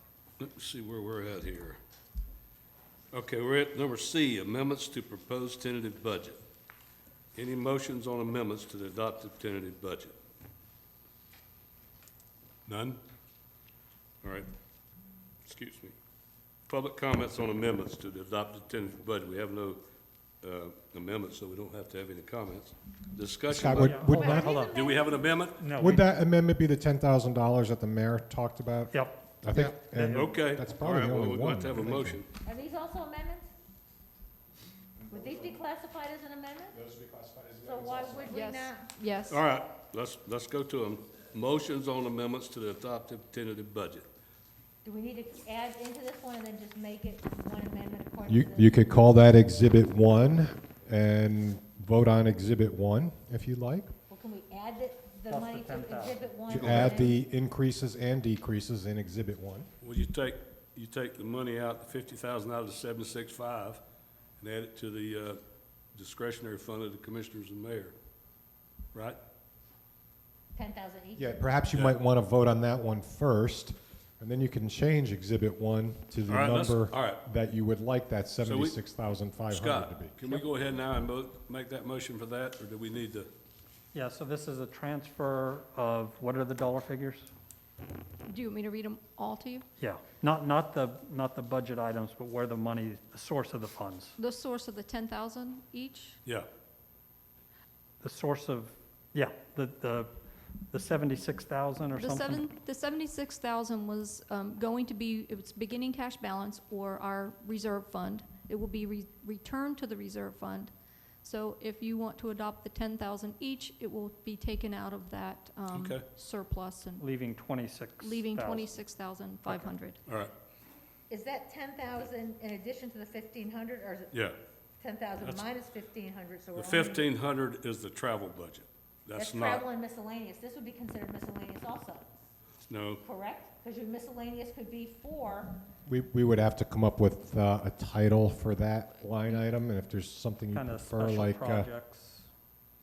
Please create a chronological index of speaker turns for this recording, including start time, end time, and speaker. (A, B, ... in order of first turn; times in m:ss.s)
0:00.4-0:01.8 A
0:03.1-0:06.4 A
0:07.3-0:10.1 A
0:12.6-0:13.0 A
0:14.2-0:14.5 A
0:15.4-0:15.9 A
0:16.7-0:19.8 A
0:20.4-0:25.7 A
0:23.5-0:24.6 B
0:23.7-0:24.8 C
0:24.1-0:25.4 D
0:25.5-0:26.1 C
0:25.8-0:32.2 B
0:28.9-0:30.3 C
0:30.0-0:32.3 A
0:32.4-0:33.5 D
0:35.1-0:36.8 D
0:37.6-0:39.2 D
0:38.2-0:39.4 E
0:39.3-0:44.1 A
0:44.8-0:48.8 D
0:48.2-0:53.9 B
0:54.1-0:57.2 D
0:55.3-0:56.3 C
0:56.5-0:59.7 B
0:56.6-0:56.9 A
0:59.8-1:03.8 A
1:04.4-1:05.4 A
1:05.9-1:07.9 A
1:10.5-1:11.4 D
1:11.2-1:20.2 B
1:16.2-1:17.2 A
1:18.4-1:18.8 A
1:19.5-1:23.3 A
1:23.9-1:27.3 C
1:28.2-1:29.6 E
1:29.8-1:34.2 C
1:34.2-1:36.2 E
1:38.0-1:40.1 C
1:40.7-1:42.5 C
1:42.0-1:57.0 E
1:55.7-1:56.0 A
1:57.0-1:58.8 C
1:58.0-2:00.0 E
2:00.1-2:00.3 A
2:01.1-2:04.1 D
2:04.1-2:04.4 A
2:04.8-2:07.1 D
2:06.5-2:09.7 A
2:09.1-2:12.1 D
2:12.7-2:13.0 A
2:13.0-2:15.6 D
2:15.9-2:21.7 B
2:20.5-2:22.3 C